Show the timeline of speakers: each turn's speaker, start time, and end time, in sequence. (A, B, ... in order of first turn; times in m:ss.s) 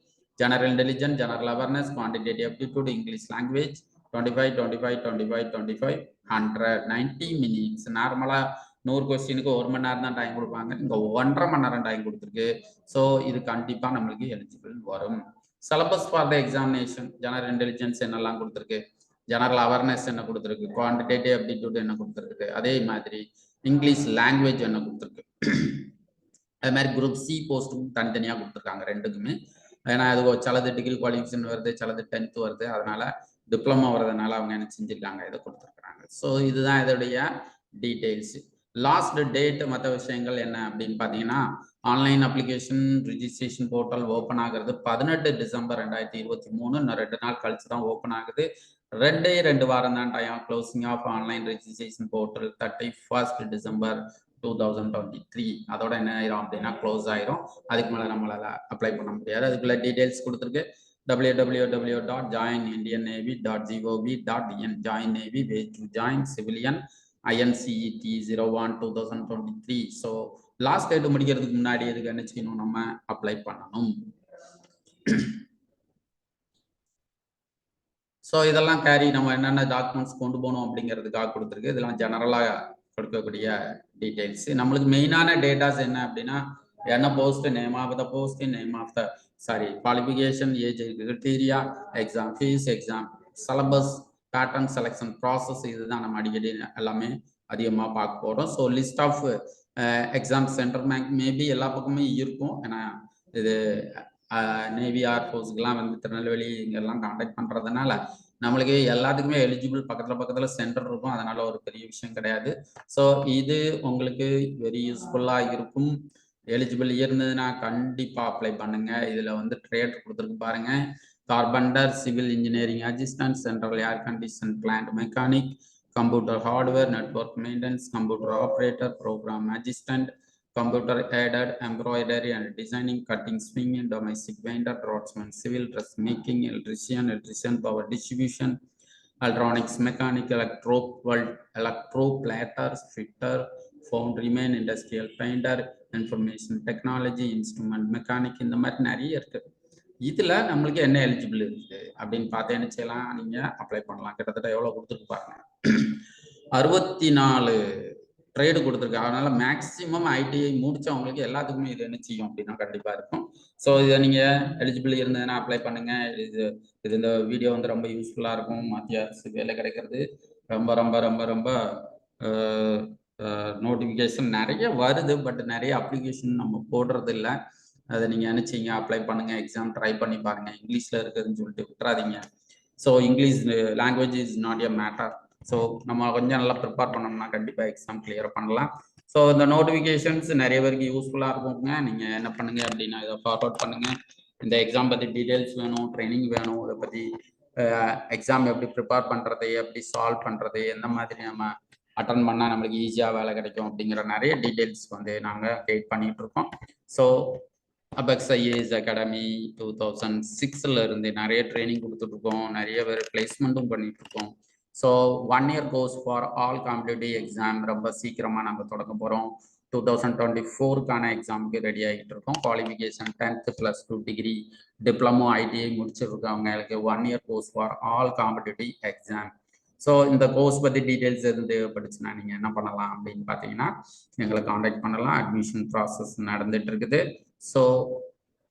0:00.4-0:25.9 A
0:26.6-0:29.4 A
0:29.9-0:48.5 A
0:49.0-1:13.9 A
1:15.0-1:15.4 A
1:18.2-1:56.0 A
1:56.5-2:18.6 A
2:19.2-2:29.4 A
2:30.0-2:36.0 A
2:36.6-2:57.4 A
2:57.9-3:02.2 A
3:02.8-3:27.4 A
3:28.0-3:58.1 A